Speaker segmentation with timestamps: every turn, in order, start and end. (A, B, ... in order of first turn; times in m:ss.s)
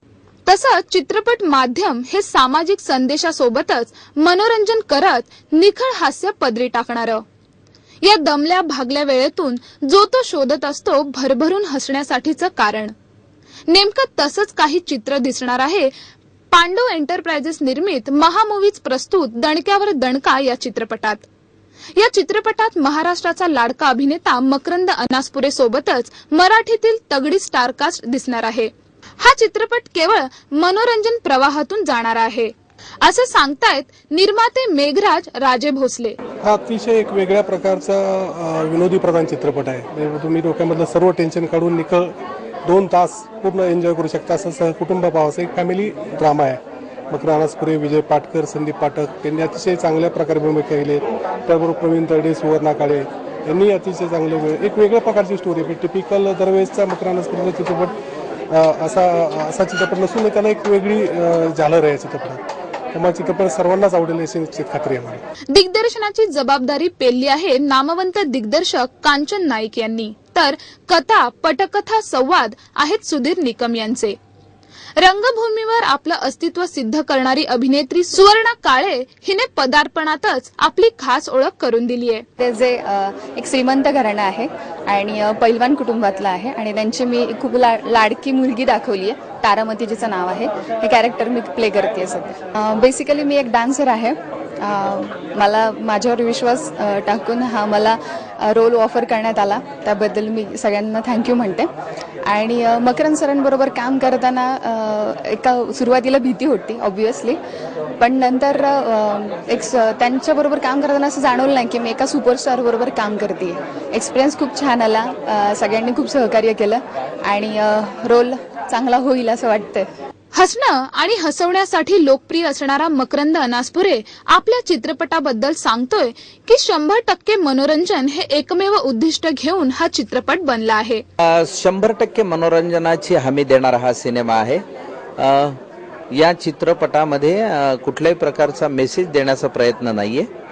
0:00.4-0:07.2 A
0:08.0-0:12.9 A
0:13.7-0:15.9 A
0:16.5-0:21.2 A
0:22.0-0:36.2 A
0:36.4-0:42.1 B
0:42.6-0:46.6 B
0:47.1-0:57.9 B
0:58.5-1:02.4 B
1:02.9-1:05.2 B
1:05.5-1:14.2 A
1:15.0-1:22.2 A
1:22.4-1:41.7 C
1:42.2-1:47.4 C
1:48.0-1:59.9 C
2:00.3-2:11.0 A
2:11.2-2:14.6 D
2:15.2-2:15.6 D
2:16.1-2:20.3 D